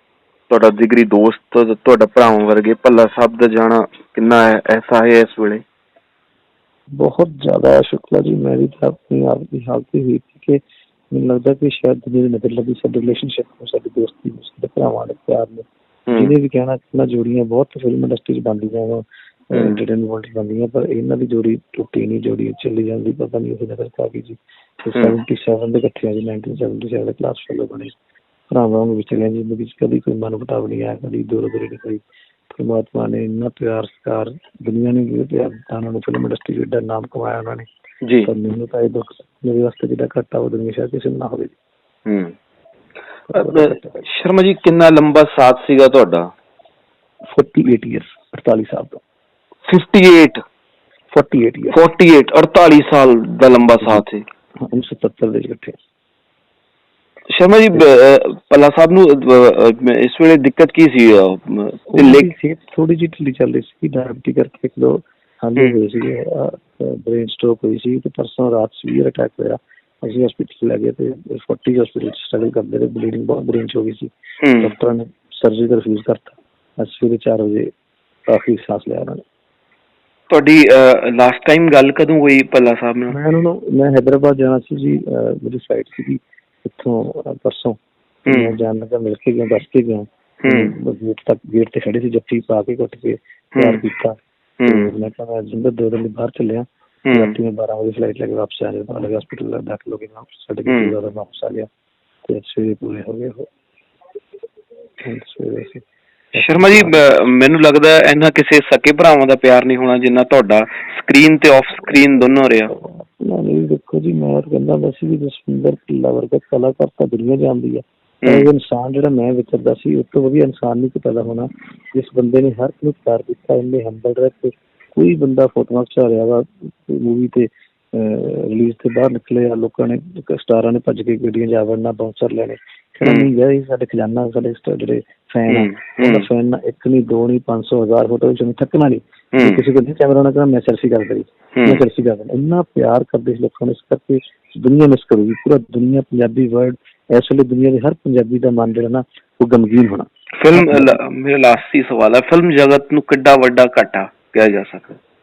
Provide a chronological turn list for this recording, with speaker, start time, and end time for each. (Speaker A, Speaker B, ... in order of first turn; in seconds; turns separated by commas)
Speaker A: 0.5-5.6, Speaker B: 7.0-27.9, Speaker A: 16.1-16.3, Speaker B: 28.5-37.7, Speaker B: 38.2-41.5, Speaker A: 42.1-42.3, Speaker B: 43.3-44.0, Speaker A: 43.3-46.3, Speaker B: 47.3-49.0, Speaker A: 49.7-50.4, Speaker B: 51.1-51.8, Speaker A: 51.7-54.2, Speaker B: 54.6-55.8, Speaker A: 57.3-62.3, Speaker B: 61.9-77.7, Speaker A: 74.4-74.7, Speaker B: 78.3-79.2, Speaker A: 80.3-83.2, Speaker B: 83.1-101.7, Speaker A: 88.3-88.6, Speaker A: 90.4-90.7, Speaker A: 93.5-93.8, Speaker A: 94.6-94.9, Speaker A: 97.1-97.3, Speaker A: 100.7-100.9, Speaker B: 102.2-103.5, Speaker B: 105.0-105.8, Speaker B: 106.3-107.0, Speaker A: 106.4-112.7, Speaker B: 112.7-151.0, Speaker A: 133.0-133.3, Speaker A: 135.5-136.3, Speaker A: 139.3-139.6, Speaker A: 141.6-141.8, Speaker A: 150.4-155.0